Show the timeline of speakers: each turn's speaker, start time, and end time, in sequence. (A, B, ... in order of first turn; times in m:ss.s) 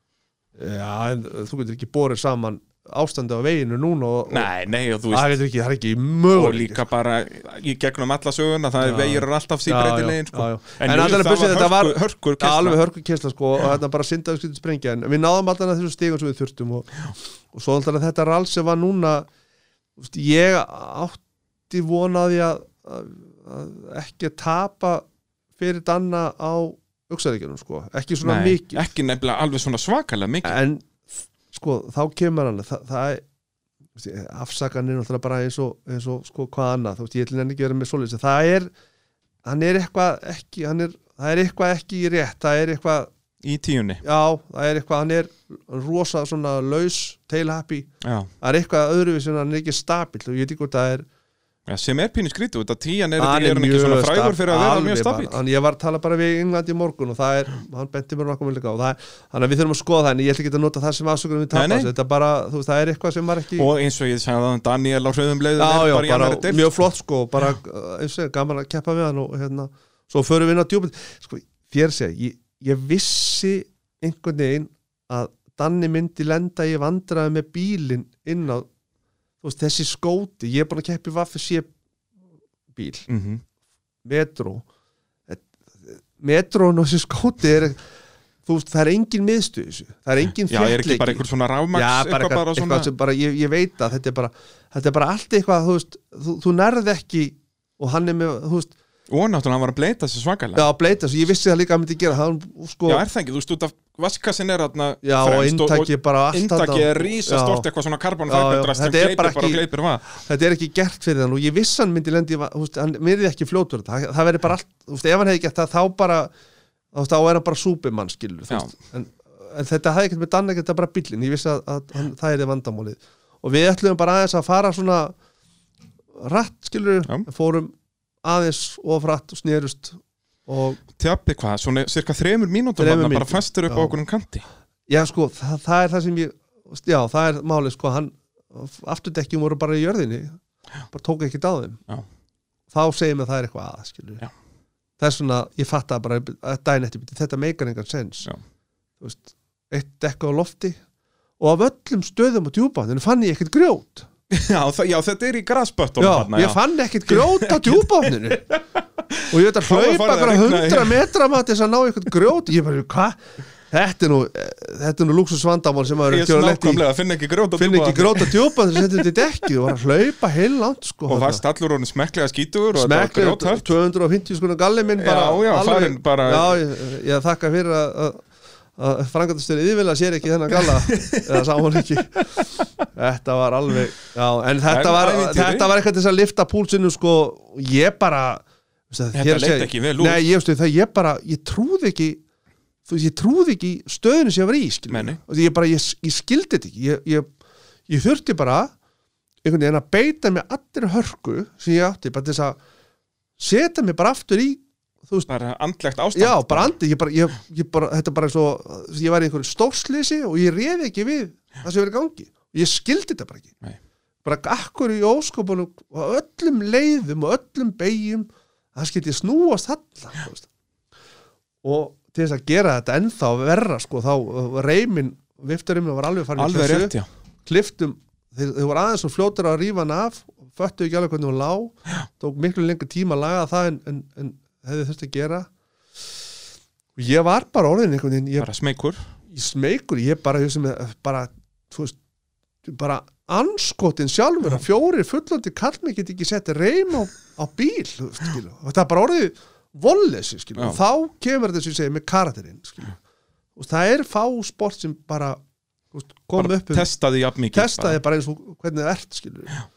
0:00.6-0:04.5 A
0:04.3-0:05.3 B
0:05.1-0:06.8 A
0:06.3-0:12.8 B
0:08.8-0:19.3 A
0:20.0-0:25.0 A
0:25.6-0:28.8 A
0:28.2-0:30.6 B
0:30.4-0:30.9 A
0:31.5-0:33.2 A
0:34.0-0:38.7 A
0:39.4-0:43.1 A
0:43.4-0:44.0 B
0:44.0-0:47.9 A
0:48.0-0:48.3 B
0:48.4-0:51.1 A
0:51.7-0:55.4 B
0:53.2-1:03.7 A
1:01.5-1:01.9 B
1:03.6-1:06.7 B
1:05.6-1:18.7 A
1:19.4-1:21.7 A
1:22.7-1:23.1 A
1:23.1-1:23.4 B
1:24.0-1:24.6 A
1:25.3-1:27.8 A
1:28.5-1:38.7 A
1:30.5-1:32.9 B
1:39.1-1:40.7 B
1:40.6-1:43.0 A
1:42.9-1:50.0 B
1:45.0-1:47.7 A
1:48.3-1:56.3 A
1:56.9-2:05.1 A
2:06.2-2:10.8 A
2:11.0-2:14.4 B
2:12.8-2:14.0 A
2:14.9-2:20.4 A
2:20.9-2:21.8 A
2:22.7-2:24.2 A
2:25.0-2:28.3 A
2:29.0-2:30.8 A
2:31.4-2:34.1 A
2:34.3-2:41.0 B
2:36.0-2:38.5 A
2:39.3-2:43.2 A
2:43.7-2:46.8 A
2:46.1-2:49.1 B
2:47.6-2:51.4 A
2:51.1-2:53.7 B
2:52.8-2:58.2 A
2:55.0-2:56.6 B
2:58.8-3:12.2 A
3:00.5-3:01.5 B
3:04.7-3:05.7 B
3:09.1-3:10.2 B
3:12.9-3:17.3 A
3:14.9-3:15.2 B
3:17.9-3:18.7 A
3:19.4-3:22.6 A
3:23.4-3:25.3 A
3:25.3-3:26.8 B
3:26.1-3:33.5 A
3:34.2-3:40.5 A
3:41.6-3:46.9 A
3:46.4-3:47.1 B
3:47.4-3:55.5 A
3:57.0-3:58.5 A
3:58.4-3:59.0 B
3:59.3-4:02.0 A
4:02.6-4:13.0 A
4:13.6-4:15.4 A
4:15.9-4:16.9 A
4:16.4-4:18.0 B
4:17.5-4:19.6 A